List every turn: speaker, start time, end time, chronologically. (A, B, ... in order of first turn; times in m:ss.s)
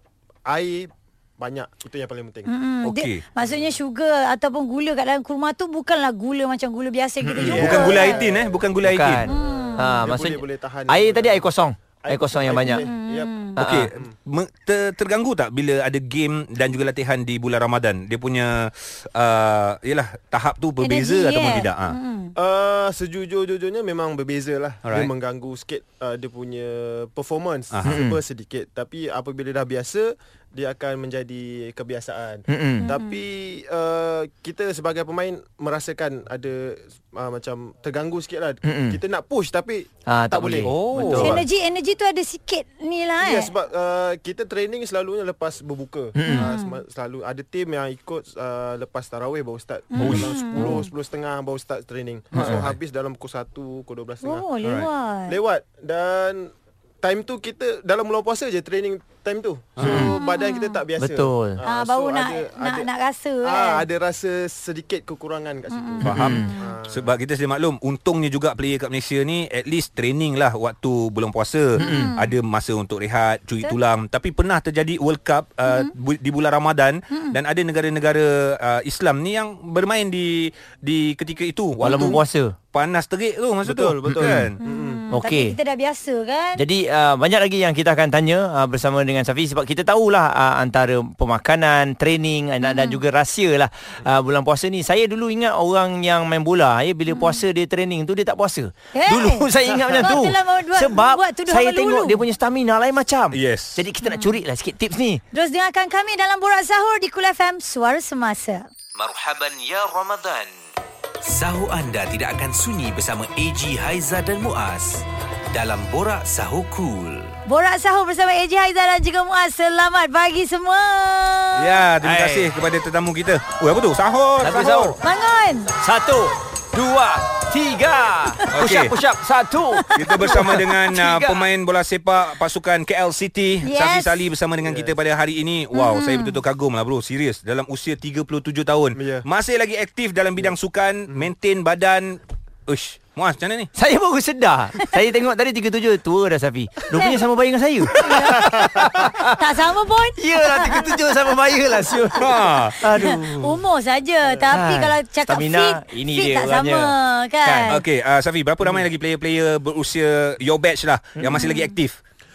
0:00.4-0:02.5 A
0:02.5-0:08.2 B
0:02.8-0:03.2 C
0:03.4-0:03.8 A
0:07.2-0:07.9 D
0:07.4-0:08.5 A
0:07.4-0:09.2 C
0:08.8-0:12.8 D
0:09.2-0:10.1 B
0:09.3-0:11.5 A
0:12.0-0:14.1 A
0:12.5-0:13.7 B
0:13.6-0:22.0 C
0:13.6-0:13.9 D
0:20.8-0:22.3 B
0:22.4-0:41.4 A
0:24.8-0:25.1 C
0:27.7-0:28.0 C
0:27.8-0:28.2 D
0:32.5-0:32.9 D
0:32.8-0:33.2 B
0:38.6-0:39.0 D
0:40.1-0:41.4 D
0:40.6-0:41.4 C
0:41.1-0:43.5 B
0:43.2-0:54.4 A
0:46.2-0:46.5 D
0:46.2-0:46.8 B
0:49.9-0:50.8 B
0:50.0-0:50.7 C
0:52.3-0:52.7 D
0:54.2-0:55.4 B
0:54.6-0:54.9 C
0:55.3-1:02.9 A
0:59.8-1:00.1 C
0:59.8-1:00.2 D
0:59.9-1:00.8 B
1:01.0-1:01.6 D
1:01.6-1:03.8 B
1:03.4-1:07.1 A
1:05.7-1:06.7 B
1:06.0-1:22.2 C
1:06.1-1:06.5 D
1:11.8-1:12.3 B
1:11.8-1:12.1 D
1:17.1-1:17.4 B
1:21.8-1:22.5 D
1:22.7-1:24.6 C
1:23.6-1:25.0 A
1:24.1-1:24.5 D
1:24.6-1:26.6 B
1:25.1-1:25.6 D
1:26.6-1:45.2 D
1:32.6-1:33.0 B
1:37.1-1:37.4 B
1:38.9-1:42.2 B
1:43.3-1:43.8 C
1:44.0-1:44.4 B
1:45.3-1:48.7 B
1:49.0-1:50.5 E
1:51.2-1:57.4 E
1:57.5-2:01.8 B
2:01.5-2:05.0 C
2:02.0-2:02.5 D
2:04.4-2:05.0 D
2:05.0-2:05.7 B
2:05.8-2:11.5 D
2:08.5-2:08.9 C
2:09.7-2:10.6 B
2:09.9-2:23.7 C
2:13.6-2:14.3 B
2:14.6-2:15.0 A
2:15.7-2:16.4 B
2:18.9-2:19.2 A
2:23.8-2:29.5 D
2:26.9-2:27.2 B
2:28.0-2:28.4 B
2:28.3-2:29.0 A
2:29.3-2:31.4 B
2:30.2-2:33.6 D
2:32.2-2:33.1 C
2:32.8-2:37.8 B
2:34.2-2:34.5 A
2:34.5-2:37.8 D
2:37.7-2:42.0 C
2:41.2-2:41.5 D
2:41.4-2:41.7 B